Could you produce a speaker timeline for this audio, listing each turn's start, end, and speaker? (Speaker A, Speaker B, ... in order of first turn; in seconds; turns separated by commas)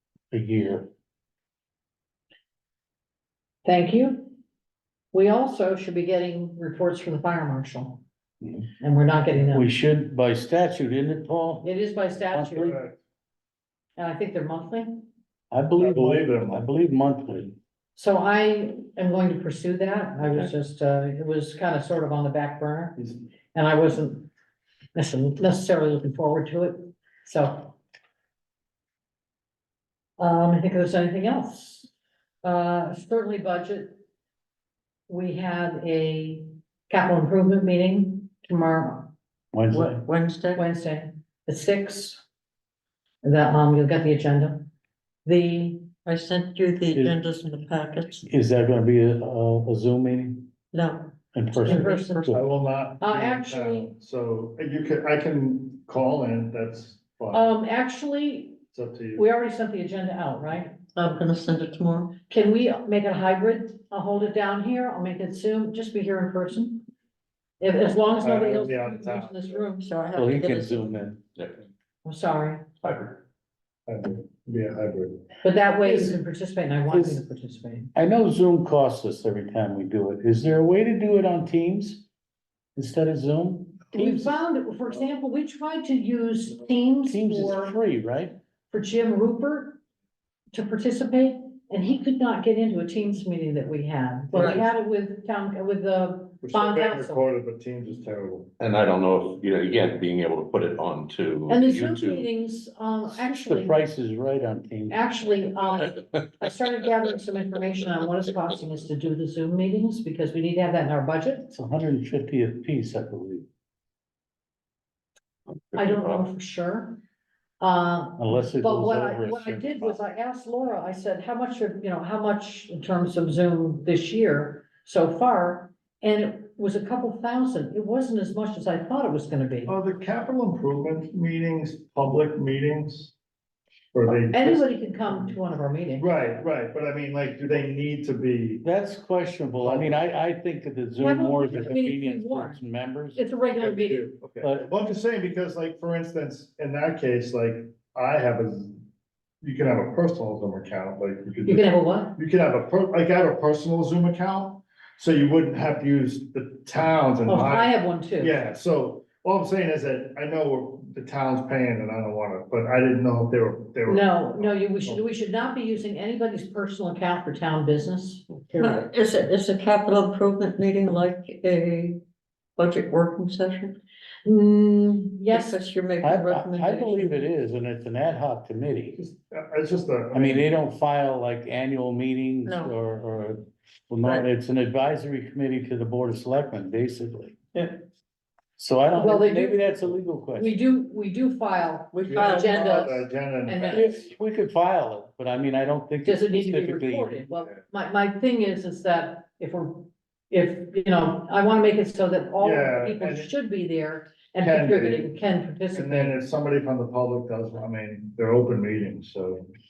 Speaker A: 0.3-0.9, Speaker B: 3.6-4.4, Speaker B: 5.1-8.0, Speaker A: 8.4-8.7, Speaker B: 8.8-9.7, Speaker A: 9.3-11.7, Speaker B: 11.6-12.8, Speaker A: 12.3-12.8, Speaker C: 12.7-13.0, Speaker B: 14.0-15.1, Speaker A: 15.5-17.6, Speaker C: 15.8-16.7, Speaker B: 17.9-24.3, Speaker B: 24.9-27.8, Speaker B: 30.2-31.9, Speaker B: 32.4-34.0, Speaker B: 35.1-39.1, Speaker A: 39.5-40.0, Speaker D: 39.7-40.6, Speaker B: 40.5-42.2, Speaker B: 43.2-44.7, Speaker B: 45.2-45.9, Speaker D: 46.0-48.3, Speaker A: 46.9-47.2, Speaker A: 48.3-50.5, Speaker D: 50.7-52.3, Speaker A: 51.3-52.4, Speaker B: 51.6-52.3, Speaker C: 52.3-57.5, Speaker B: 53.0-53.9, Speaker B: 57.3-58.6, Speaker C: 58.7-59.2, Speaker B: 59.1-60.8, Speaker D: 60.9-62.1, Speaker B: 62.3-66.8, Speaker B: 67.6-69.9, Speaker C: 68.2-69.6, Speaker D: 69.8-71.0, Speaker A: 70.2-71.2, Speaker B: 72.0-72.7, Speaker E: 72.8-73.2, Speaker C: 73.9-75.2, Speaker B: 75.4-77.9, Speaker A: 75.8-76.2, Speaker A: 76.9-77.2, Speaker A: 77.9-82.0, Speaker A: 82.8-84.4, Speaker B: 83.9-87.8, Speaker A: 87.1-88.4, Speaker B: 88.7-89.8, Speaker B: 90.5-97.2, Speaker C: 94.3-94.6, Speaker D: 94.3-94.6, Speaker C: 96.4-98.5, Speaker E: 98.6-102.3, Speaker B: 101.5-103.8, Speaker A: 103.1-105.0, Speaker B: 104.9-111.5, Speaker A: 111.5-113.5, Speaker E: 115.5-116.3, Speaker B: 115.8-117.0, Speaker B: 117.6-129.7, Speaker A: 118.2-120.0, Speaker C: 129.7-133.1, Speaker C: 133.9-135.3, Speaker B: 134.3-136.1, Speaker C: 136.0-138.6, Speaker A: 138.6-143.2, Speaker C: 139.6-140.0, Speaker B: 141.0-142.6, Speaker B: 143.1-144.1, Speaker C: 143.5-148.8, Speaker A: 144.4-144.7, Speaker C: 149.4-165.0, Speaker B: 151.5-152.2, Speaker B: 157.3-158.3, Speaker B: 163.9-168.9, Speaker D: 168.6-172.0, Speaker D: 172.6-173.8, Speaker B: 174.2-175.6, Speaker D: 175.3-177.2, Speaker A: 176.0-179.0, Speaker C: 179.0-180.5, Speaker A: 180.1-187.4, Speaker D: 182.4-182.7, Speaker D: 187.5-187.8, Speaker A: 188.6-190.6, Speaker B: 188.9-193.9, Speaker D: 191.9-192.9, Speaker C: 192.1-194.0, Speaker A: 193.7-197.3, Speaker B: 196.0-206.1, Speaker C: 202.4-203.3, Speaker C: 204.4-205.1, Speaker C: 205.7-209.5